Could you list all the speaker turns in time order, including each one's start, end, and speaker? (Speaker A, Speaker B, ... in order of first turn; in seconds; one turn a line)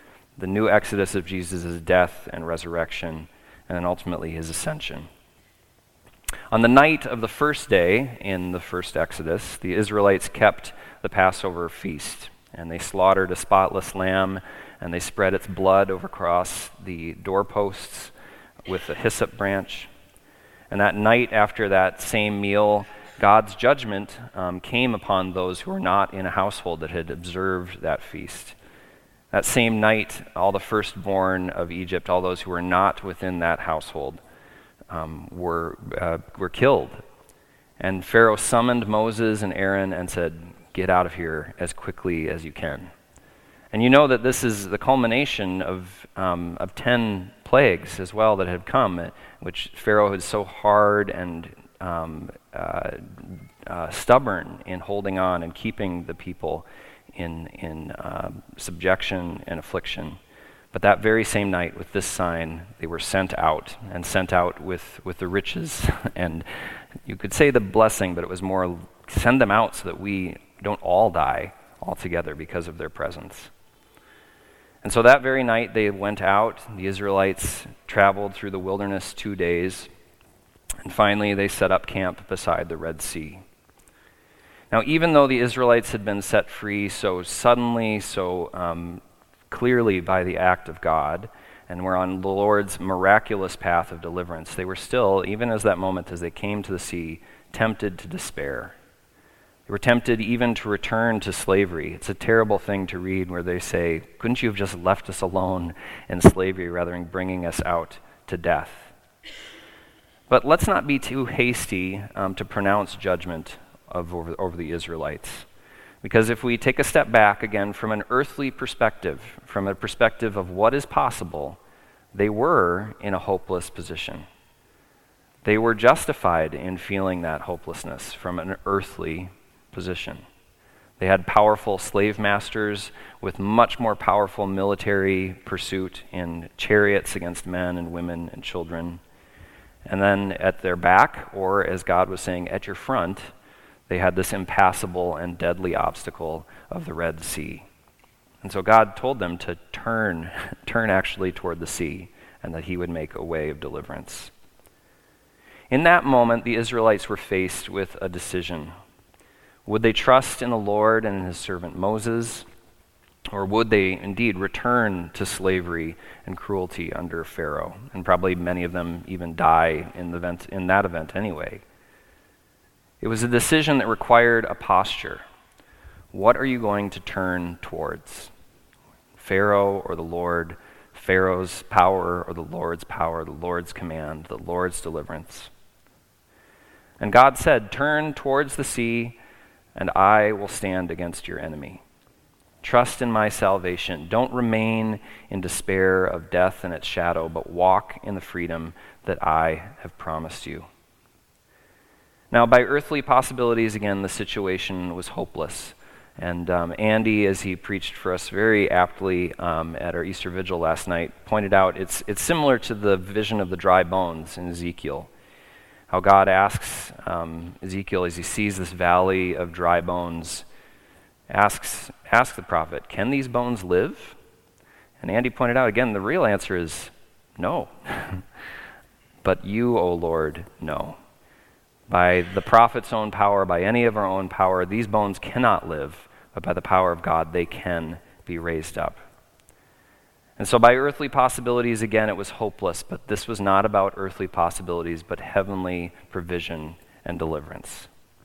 Speaker A: 0.4-5.1
Speaker A: 6.5-18.1
Speaker A: 18.7-19.9
Speaker A: 20.7-28.6
Speaker A: 29.3-34.2
Speaker A: 34.9-37.0
Speaker A: 37.8-42.9
Speaker A: 43.7-60.2
Speaker A: 60.7-66.5
Speaker A: 67.0-73.5
Speaker A: 74.8-79.9
Speaker A: 80.8-83.4
Speaker A: 84.7-98.8
Speaker A: 99.7-108.9
Speaker A: 110.3-115.5
Speaker A: 116.0-121.6
Speaker A: 122.1-124.3
Speaker A: 125.4-130.2
Speaker A: 131.0-139.0
Speaker A: 139.9-143.3
Speaker A: 143.9-147.7
Speaker A: 148.4-154.3
Speaker A: 155.7-158.7
Speaker A: 159.7-162.5
Speaker A: 163.3-171.6
Speaker A: 173.0-175.2
Speaker A: 176.1-178.3
Speaker A: 179.2-185.5
Speaker A: 187.0-189.2
Speaker A: 189.8-191.8
Speaker A: 192.6-200.7
Speaker A: 202.3-215.1
Speaker A: 215.9-220.5
Speaker A: 221.3-224.2
Speaker A: 225.0-228.2
Speaker A: 229.2-231.0
Speaker A: 231.9-239.0
Speaker A: 240.4-247.9